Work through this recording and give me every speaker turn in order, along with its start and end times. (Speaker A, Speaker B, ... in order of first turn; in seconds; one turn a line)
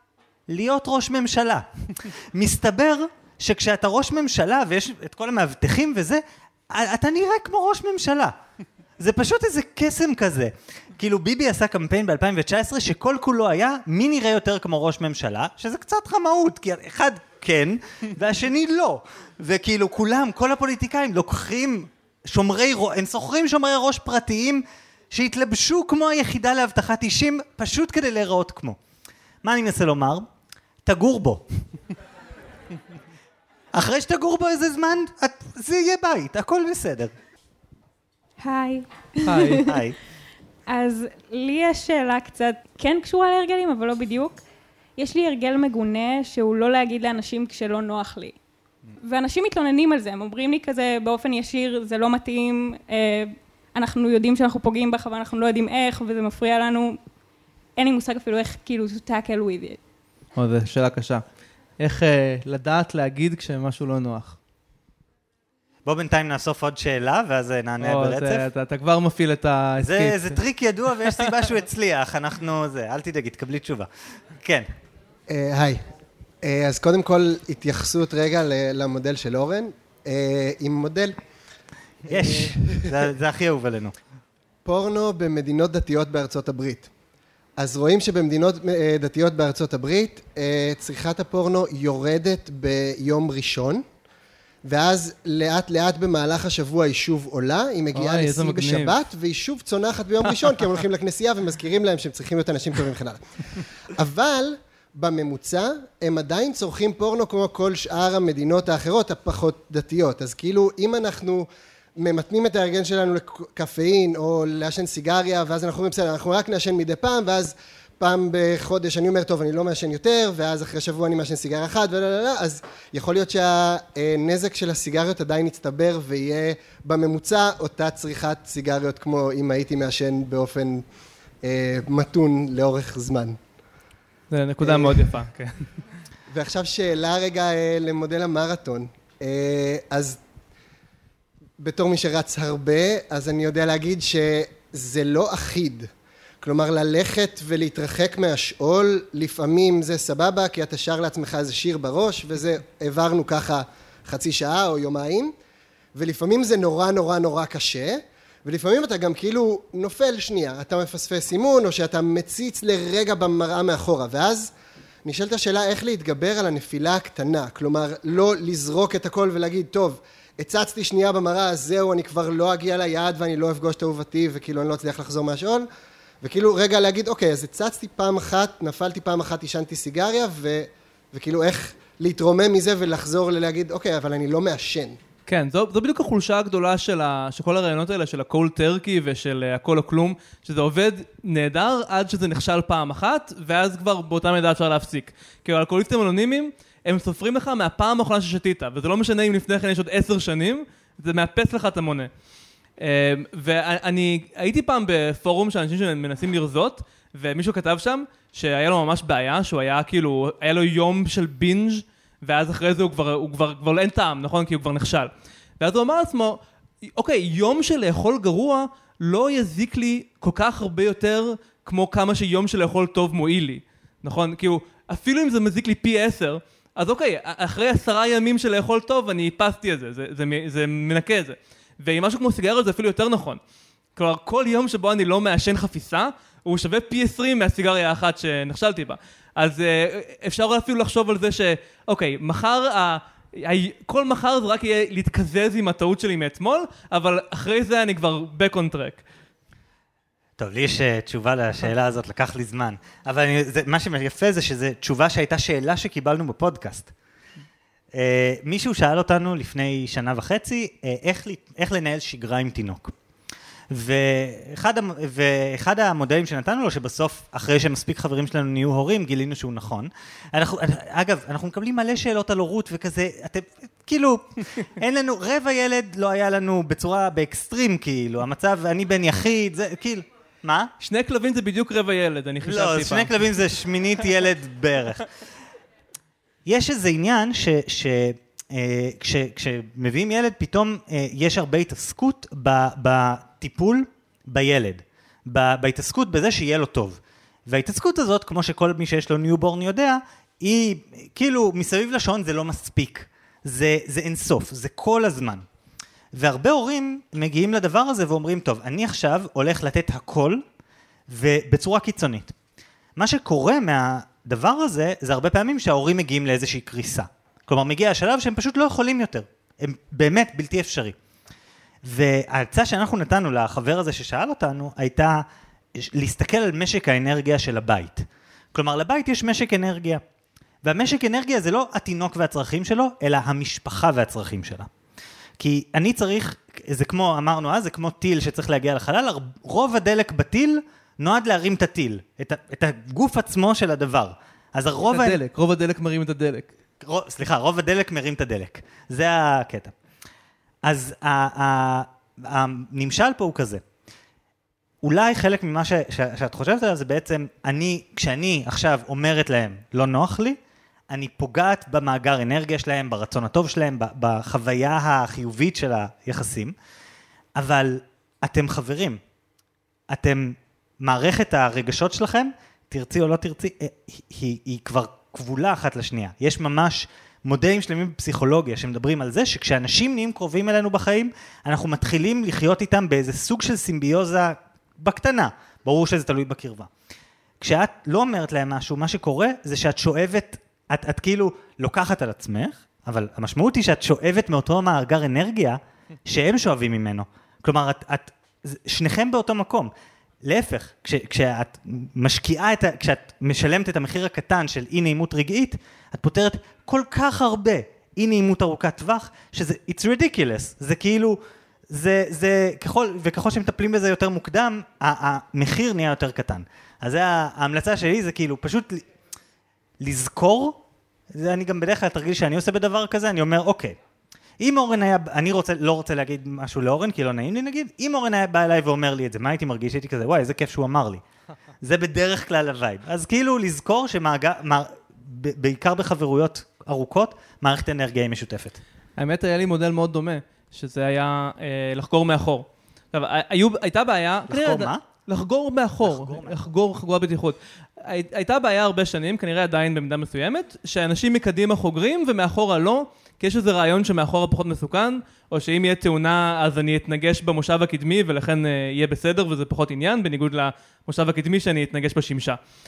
Speaker A: 0.5-8.4
Speaker A: 9.0-28.8
Speaker A: 29.4-30.3
Speaker A: 30.9-31.4
Speaker A: 33.7-37.1
Speaker B: 38.4-39.9
Speaker C: 39.2-39.7
Speaker A: 39.7-40.0
Speaker B: 40.7-44.4
Speaker B: 45.0-48.4
Speaker B: 49.0-57.0
Speaker B: 57.8-59.8
Speaker C: 60.4-61.2
Speaker C: 61.8-64.4
Speaker A: 65.8-68.5
Speaker C: 67.8-70.4
Speaker A: 69.8-74.7
Speaker D: 75.3-75.8
Speaker D: 76.4-81.2
Speaker A: 82.1-84.0
Speaker D: 82.1-82.9
Speaker D: 84.7-86.9
Speaker D: 87.6-93.8
Speaker D: 94.7-103.2
Speaker C: 97.9-98.9
Speaker D: 104.0-130.8
Speaker D: 131.4-133.4
Speaker C: 134.3-135.7
Speaker D: 134.6-135.1
Speaker D: 136.3-140.2
Speaker D: 141.6-145.9
Speaker D: 146.4-155.3
Speaker D: 155.9-164.5
Speaker D: 165.1-175.7
Speaker D: 176.2-185.0
Speaker C: 185.3-202.1
Speaker C: 202.8-233.4
Speaker C: 234.0-249.0
Speaker A: 250.4-256.9
Speaker A: 257.9-262.9
Speaker A: 263.7-280.7
Speaker C: 280.8-283.1
Speaker A: 282.4-285.1
Speaker A: 286.5-305.5
Speaker A: 306.1-310.4
Speaker A: 311.1-312.3
Speaker A: 313.0-321.0
Speaker A: 321.8-325.2
Speaker A: 325.8-330.0
Speaker A: 330.6-334.7
Speaker A: 335.4-345.2
Speaker C: 344.9-346.5
Speaker A: 346.8-349.7
Speaker A: 350.6-353.6
Speaker A: 354.8-360.4
Speaker A: 360.9-366.6
Speaker A: 367.4-369.0
Speaker A: 369.9-386.7
Speaker A: 387.4-399.7
Speaker A: 400.2-418.9
Speaker A: 419.8-420.6
Speaker A: 421.1-423.8
Speaker A: 424.4-431.0
Speaker A: 431.6-438.6
Speaker C: 439.0-462.4
Speaker A: 444.3-444.8
Speaker A: 445.8-446.4